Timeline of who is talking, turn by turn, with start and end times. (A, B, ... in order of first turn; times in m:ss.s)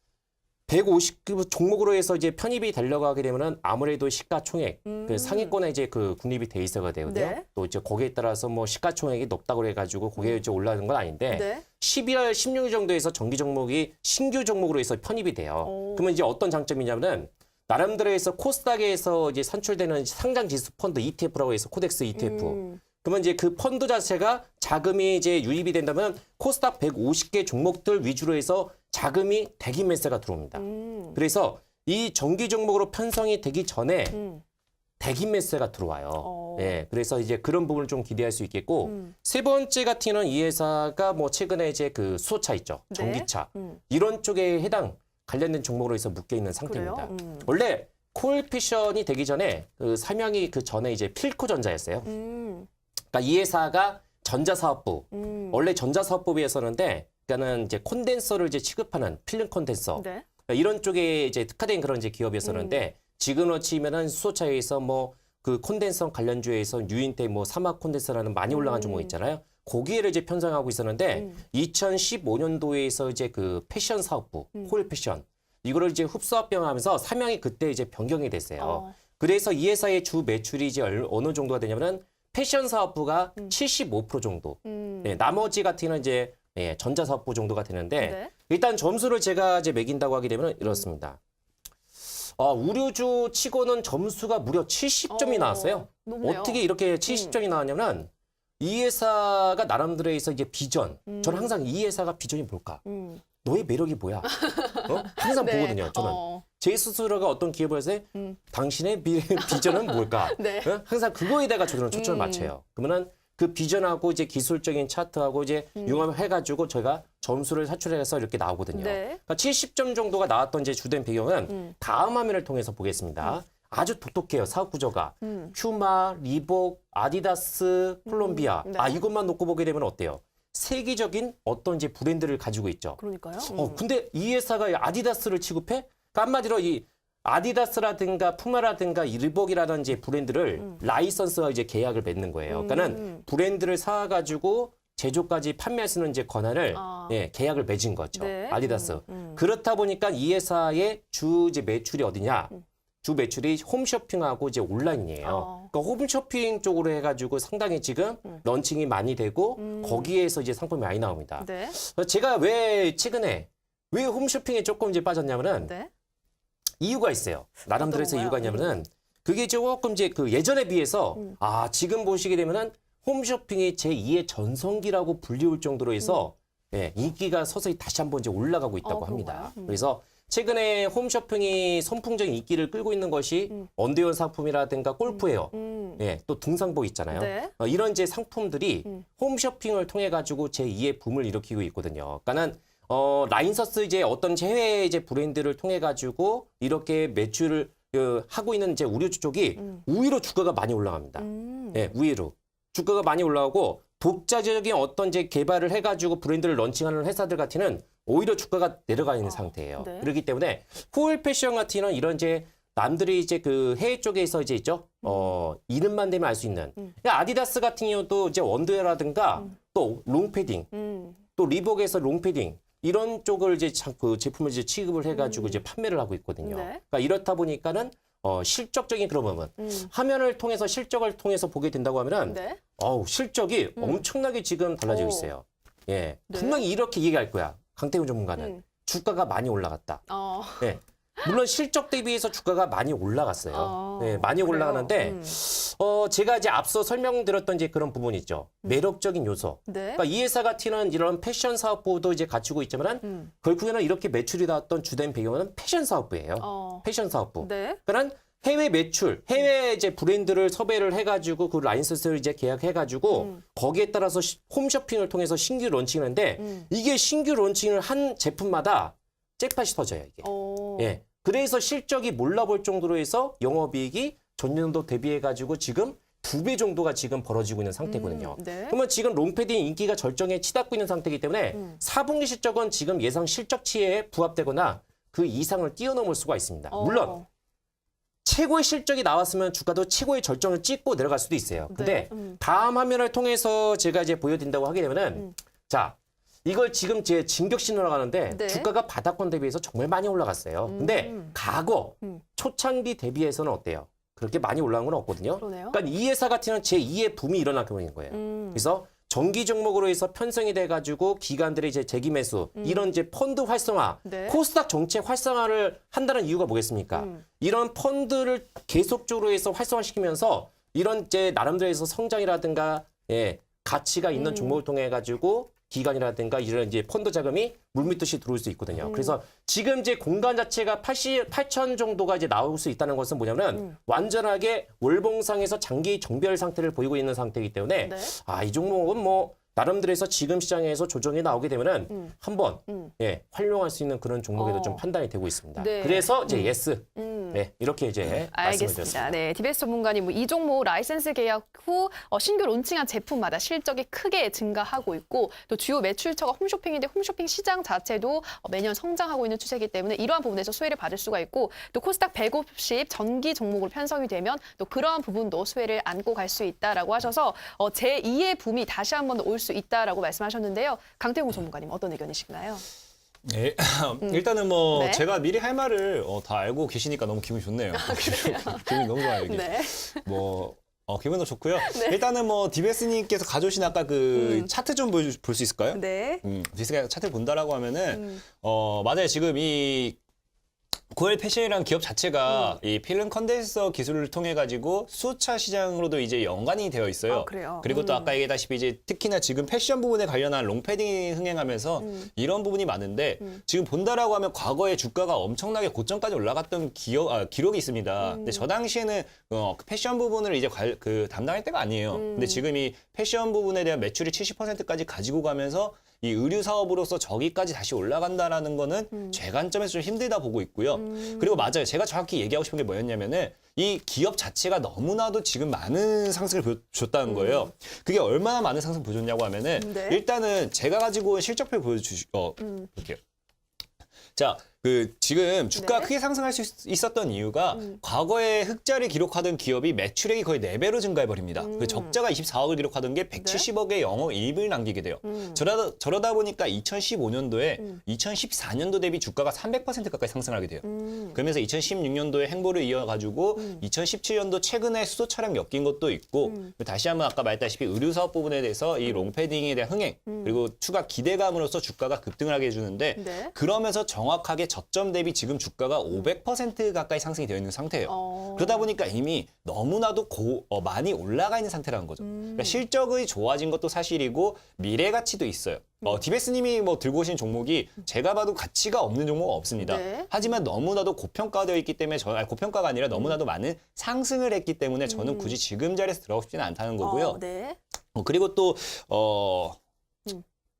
0:00.7-0:34.2 A
0:04.8-0:05.6 B
0:07.0-0:07.4 B
0:11.3-0:11.6 B
0:15.6-0:16.1 B
0:22.1-0:22.8 B
0:30.6-0:31.2 B
0:34.1-0:34.4 B
0:35.0-0:52.1 A
0:36.2-0:36.8 B
0:38.8-0:39.1 B
0:42.9-0:43.8 B
0:46.6-0:47.5 B
0:52.0-0:52.7 B
0:53.1-1:31.2 A
0:55.1-0:55.6 B
0:59.9-1:00.2 B
1:02.4-1:02.8 B
1:08.5-1:09.1 B
1:11.1-1:11.4 B
1:18.6-1:19.0 B
1:24.6-1:25.2 B
1:28.0-1:28.3 B
1:32.3-1:42.8 A
1:35.1-1:37.4 B
1:41.1-1:41.5 B
1:42.8-1:43.2 B
1:43.4-2:45.7 A
1:44.3-1:46.4 B
1:49.4-1:50.8 B
1:51.9-1:52.5 B
1:55.8-1:56.0 B
1:58.7-1:59.2 B
2:05.2-2:05.5 B
2:08.1-2:09.0 B
2:13.0-2:13.8 B
2:22.5-2:23.2 B
2:26.7-2:27.2 B
2:28.2-2:29.4 B
2:35.2-2:35.7 B
2:39.6-2:40.1 B
2:41.4-2:41.8 B
2:45.6-2:45.9 B
2:46.8-3:40.7 A
2:47.8-2:48.8 B
2:58.8-2:59.8 B
3:05.1-3:06.0 B
3:07.1-3:07.5 B
3:21.2-3:21.9 B
3:29.2-3:30.1 B
3:40.7-3:41.2 B
3:41.4-4:00.0 A
3:45.1-3:45.6 B
3:46.4-3:46.8 B
3:49.6-3:49.9 B
3:52.3-3:52.6 B
3:53.8-3:54.0 B
3:54.9-3:55.3 B
3:56.3-3:56.6 B
3:58.4-3:58.6 B
4:00.1-4:01.3 B
4:00.6-4:47.2 A
4:03.5-4:05.3 B
4:09.6-4:10.0 B
4:13.0-4:13.3 B
4:16.4-4:16.8 B
4:17.4-4:17.8 B
4:23.1-4:23.4 B
4:26.4-4:26.7 B
4:30.2-4:31.0 B
4:37.8-4:38.8 B
4:46.7-4:47.2 B
4:48.2-5:49.2 A
4:51.7-4:52.4 B
4:58.3-4:58.7 B
5:00.6-5:01.4 B
5:05.4-5:05.8 B
5:08.1-5:08.6 B
5:12.6-5:12.8 B
5:14.0-5:14.4 B
5:16.9-5:17.2 B
5:24.1-5:24.6 B
5:28.8-5:29.2 B
5:37.8-5:38.1 B
5:44.4-5:44.8 B
5:45.6-5:47.4 B
5:48.3-6:12.6 B
6:13.2-6:30.0 C
6:14.0-6:15.0 B
6:17.7-6:20.0 B
6:21.6-6:22.0 B
6:24.1-6:24.5 B
6:25.7-6:26.2 B
6:27.9-6:28.2 B
6:30.9-7:13.0 C
6:32.2-6:32.6 B
6:37.1-6:38.2 B
6:41.8-6:42.1 B
6:48.0-6:48.5 B
6:51.9-6:52.4 B
7:00.7-7:01.5 B
7:07.1-7:07.5 B
7:09.6-7:10.0 B
7:14.2-8:07.2 C
7:15.6-7:15.9 B
7:21.4-7:22.0 B
7:23.2-7:23.4 B
7:25.0-7:25.4 B
7:30.6-7:31.2 B
7:38.8-7:39.1 B
7:40.1-7:40.3 B
7:43.0-7:43.3 B
7:47.8-7:48.7 B
7:52.0-7:52.6 B
7:59.6-8:00.1 B
8:04.9-8:05.4 B
8:06.8-8:07.6 B
8:07.9-8:09.6 C